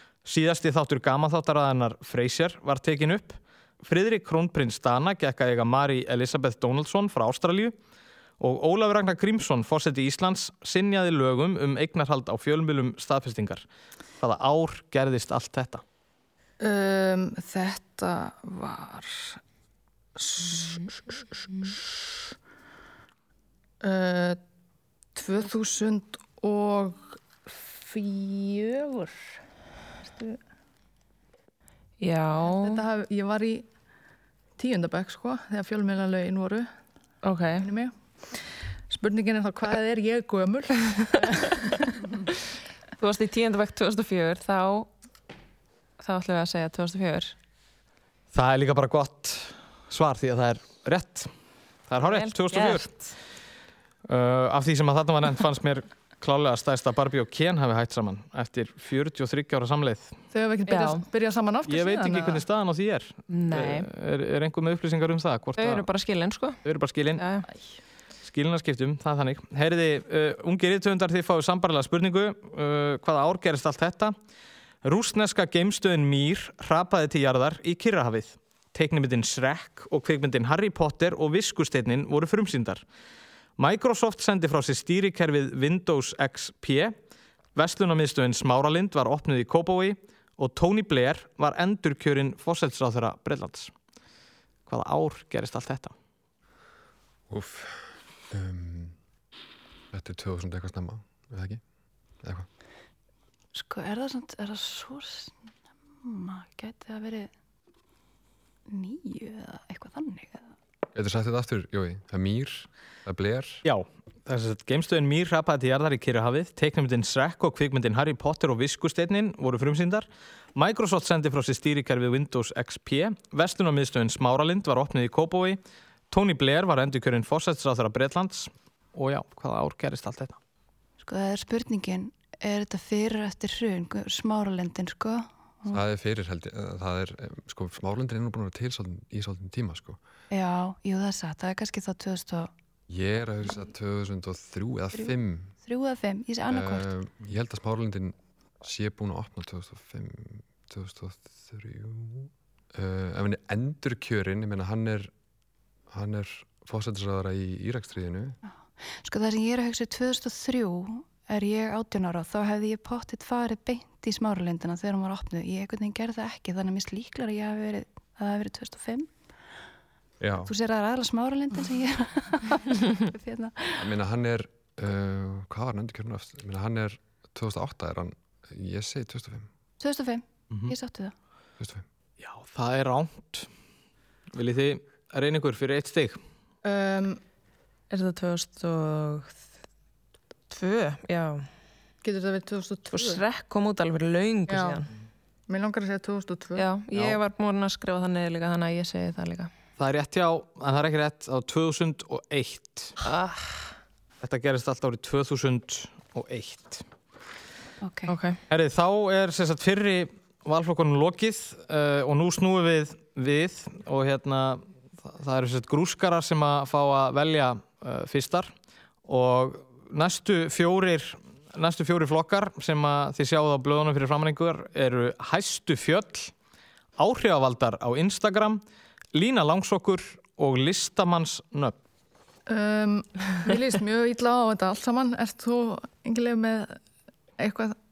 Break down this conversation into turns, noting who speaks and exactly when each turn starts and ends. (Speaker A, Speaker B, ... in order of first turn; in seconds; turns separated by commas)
Speaker A: 0.2-7.7, Speaker A: 8.4-13.7, Speaker A: 14.2-15.8, Speaker B: 16.6-19.4, Speaker B: 20.2-22.2, Speaker B: 23.8-24.4, Speaker B: 25.1-29.4, Speaker B: 30.0-30.4, Speaker C: 32.0-32.8, Speaker B: 32.5-33.7, Speaker B: 34.6-36.7, Speaker C: 37.2-37.7, Speaker B: 37.6-42.0, Speaker C: 43.0-44.9, Speaker C: 46.0-47.4, Speaker A: 48.3-51.3, Speaker A: 51.9-52.9, Speaker C: 52.0-53.2, Speaker A: 54.1-60.2, Speaker B: 60.3-62.4, Speaker C: 60.7-61.0, Speaker A: 61.7-65.9, Speaker C: 63.3-63.9, Speaker C: 65.6-66.6, Speaker A: 66.6-67.2, Speaker C: 67.2-67.5, Speaker A: 68.2-74.2, Speaker A: 74.8-82.8, Speaker A: 83.6-86.9, Speaker A: 87.5-93.7, Speaker A: 94.7-95.9, Speaker D: 97.3-99.0, Speaker D: 99.9-101.6, Speaker E: 103.5-105.4, Speaker E: 106.0-107.3, Speaker E: 108.7-110.5, Speaker D: 110.9-113.6, Speaker A: 113.7-125.6, Speaker A: 126.1-130.4, Speaker E: 131.0-135.8, Speaker D: 135.7-140.0, Speaker E: 140.3-142.5, Speaker D: 142.9-145.5, Speaker E: 144.9-146.9, Speaker D: 146.5-155.1, Speaker D: 155.9-158.4, Speaker E: 158.5-169.1, Speaker D: 170.2-170.5, Speaker E: 170.4-173.9, Speaker D: 173.8-179.5, Speaker E: 179.8-181.1, Speaker D: 181.6-181.8, Speaker A: 182.2-183.5, Speaker A: 184.3-186.2, Speaker B: 186.6-187.2, Speaker C: 187.9-189.4, Speaker C: 190.5-191.5, Speaker B: 192.0-193.2, Speaker C: 192.9-194.9, Speaker B: 194.5-194.8, Speaker B: 195.5-196.7, Speaker C: 196.6-199.5, Speaker A: 196.9-197.2, Speaker A: 199.8-203.0, Speaker C: 203.0-203.8, Speaker A: 204.2-206.8, Speaker E: 207.8-208.1, Speaker C: 208.1-208.4, Speaker A: 208.5-218.5, Speaker A: 219.1-226.3, Speaker A: 227.0-228.6, Speaker A: 229.2-231.8, Speaker B: 232.5-236.8, Speaker B: 237.4-237.8